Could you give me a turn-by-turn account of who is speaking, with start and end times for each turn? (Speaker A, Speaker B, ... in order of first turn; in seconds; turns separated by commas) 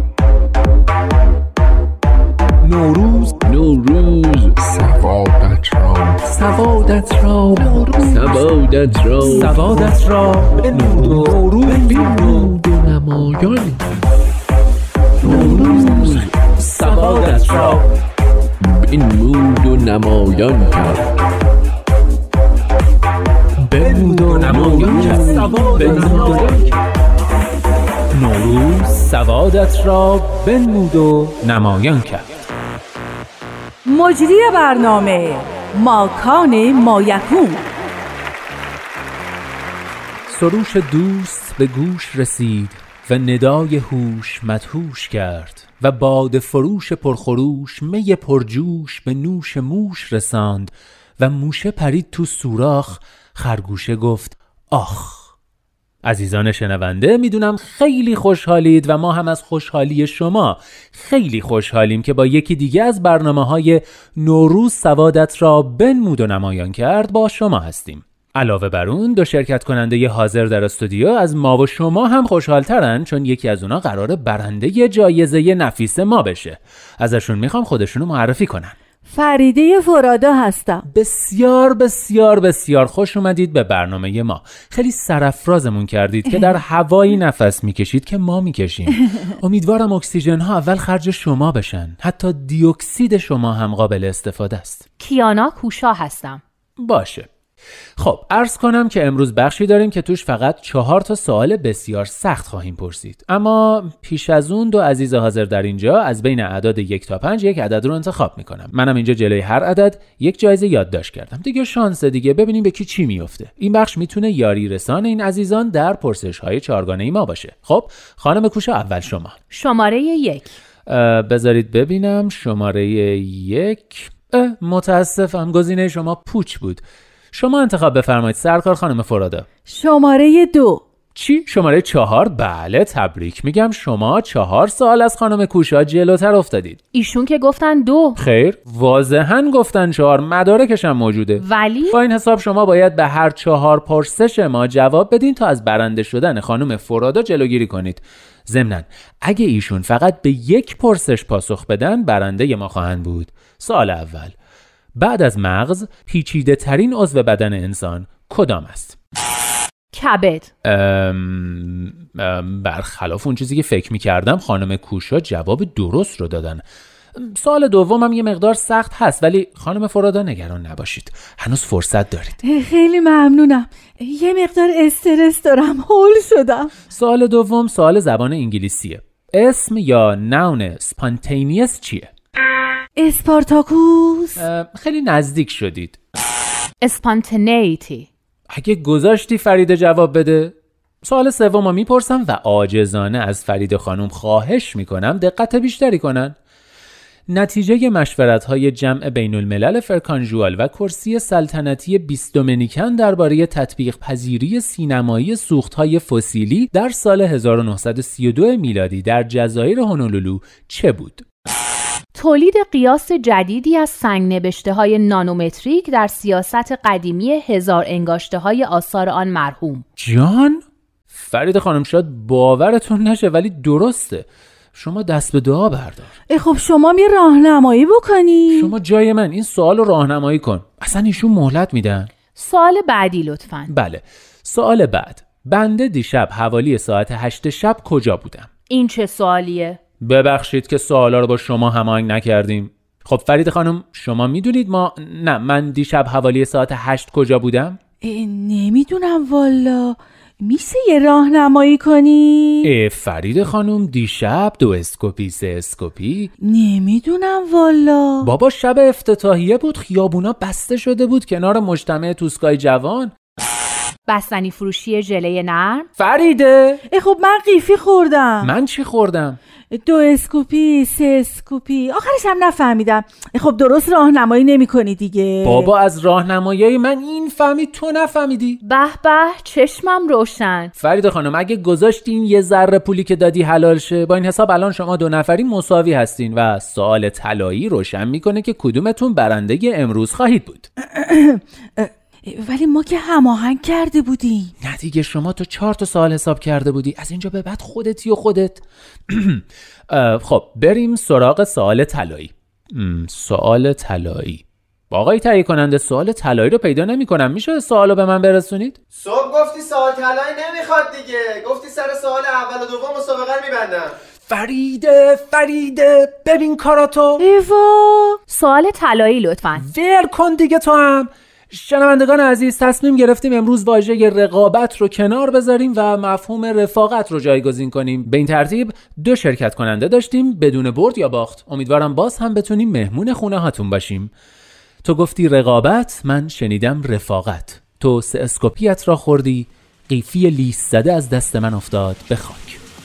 Speaker A: 2.6-3.4, Speaker B: 3.5-6.2, Speaker A: 6.3-8.5, Speaker B: 7.5-9.9, Speaker A: 9.2-12.5, Speaker B: 10.9-13.8, Speaker B: 15.2-16.3, Speaker A: 15.2-17.9, Speaker B: 18.6-21.1, Speaker A: 23.7-26.8, Speaker B: 23.9-26.4, Speaker A: 28.1-32.2, Speaker C: 34.0-37.7, Speaker A: 40.3-55.3, Speaker A: 56.0-78.8, Speaker C: 79.1-80.8, Speaker A: 80.9-94.8, Speaker D: 95.0-96.4, Speaker A: 96.8-97.3, Speaker A: 98.0-119.4, Speaker D: 119.5-120.5, Speaker A: 120.9-129.5, Speaker C: 129.7-130.8, Speaker A: 131.2-136.8, Speaker D: 136.9-138.2, Speaker A: 138.2-154.3, Speaker D: 141.4-142.0, Speaker A: 155.0-159.0, Speaker D: 159.9-160.5, Speaker A: 160.6-166.6, Speaker A: 167.2-172.4, Speaker C: 172.5-176.7, Speaker A: 176.9-182.1, Speaker C: 183.0-184.4, Speaker A: 184.4-186.0, Speaker D: 186.8-188.1, Speaker A: 188.5-196.3, Speaker A: 197.3-211.2, Speaker D: 212.2-219.8, Speaker A: 220.0-226.1, Speaker C: 226.3-228.7, Speaker A: 228.5-232.1, Speaker D: 232.3-233.7, Speaker A: 233.7-238.5, Speaker D: 238.7-239.8, Speaker A: 240.0-247.8, Speaker C: 248.1-252.7, Speaker A: 252.6-256.3, Speaker C: 256.5-258.2, Speaker A: 258.2-263.1, Speaker D: 264.1-265.9, Speaker A: 266.0-266.8, Speaker C: 267.0-268.5, Speaker A: 268.4-269.4, Speaker C: 269.8-275.6, Speaker A: 275.4-278.6, Speaker D: 278.6-280.7, Speaker A: 280.8-290.7, Speaker C: 290.9-291.4, Speaker C: 292.3-294.5, Speaker A: 294.6-308.8, Speaker E: 309.0-313.9, Speaker A: 314.3-317.2, Speaker C: 317.4-318.2, Speaker D: 318.3-319.7, Speaker A: 319.6-334.1, Speaker A: 334.8-342.6